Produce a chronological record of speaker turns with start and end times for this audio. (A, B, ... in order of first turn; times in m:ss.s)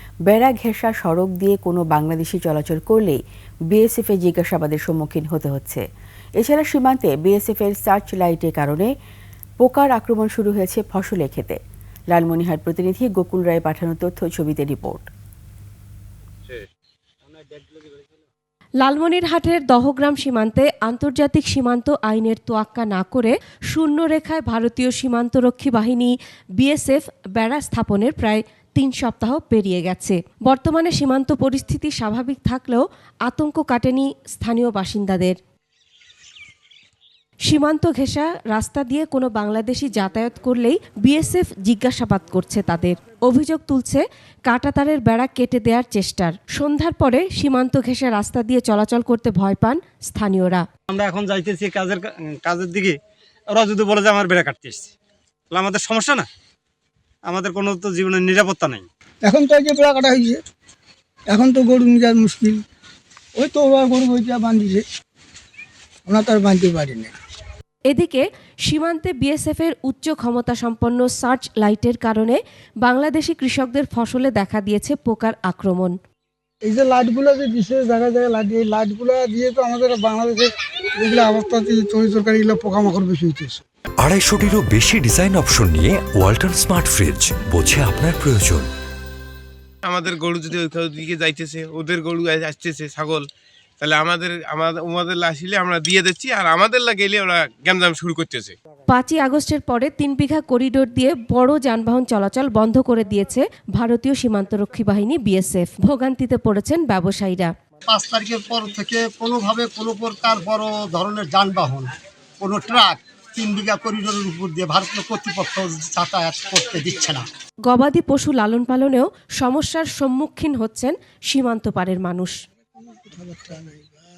0:00.3-0:03.2 A
0:03.7-0:05.8 A
0:06.4-0:08.9 A
0:09.6-0:11.6 A
0:12.1-0:15.0 A
0:18.8-0:35.4 B
0:37.4-0:50.6 B
0:50.9-0:52.9 C
0:53.5-0:54.9 C
0:55.5-0:56.3 C
0:57.3-0:58.9 C
0:59.2-1:00.4 D
1:01.3-1:02.6 D
1:03.4-1:04.8 D
1:06.1-1:07.1 D
1:07.9-1:16.0 B
1:16.6-1:23.6 D
1:24.0-1:28.7 E
1:29.8-1:33.3 F
1:33.8-1:38.5 F
1:38.9-1:47.5 B
1:47.9-1:57.2 G
1:57.7-2:02.4 B
2:03.0-2:03.8 D